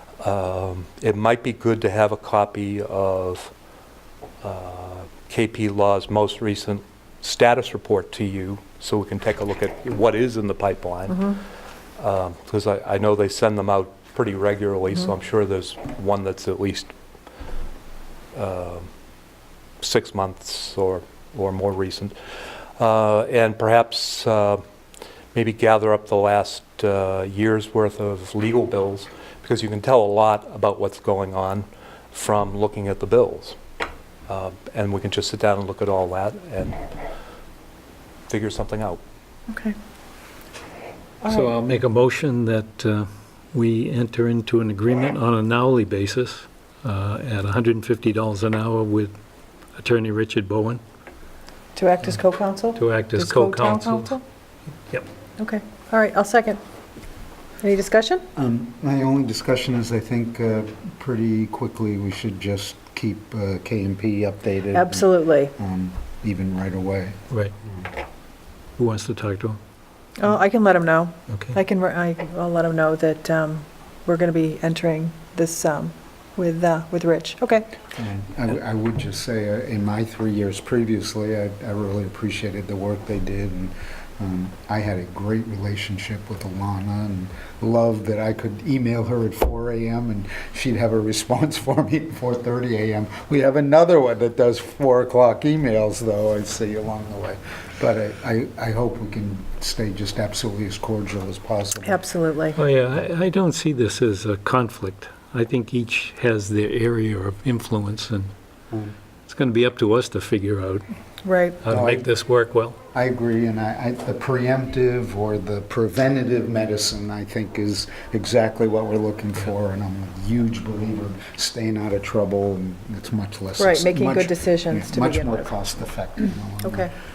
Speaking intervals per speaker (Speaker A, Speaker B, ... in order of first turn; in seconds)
Speaker A: 0.2-3.5, 4.4-11.3, 12.0-16.9, 18.3-18.9, 19.8-22.1, 22.8-24.6, 25.3-33.6, 34.3-36.8, 38.3-39.0
Speaker B: 11.1-11.3, 39.5-39.7, 41.2-41.5, 51.8-54.2, 55.4-56.6, 57.6-58.2, 64.7-65.5, 70.2-77.7, 101.8-102.6, 111.2-111.6, 123.6-125.4, 126.6-126.9
Speaker C: 41.3-49.1, 49.8-50.8, 52.7-54.2, 68.8-69.6, 71.3-71.6, 102.5-108.3, 109.2-110.8, 111.6-112.8
Speaker D: 58.4-67.2, 78.0-102.0, 111.7-112.1, 112.9-126.9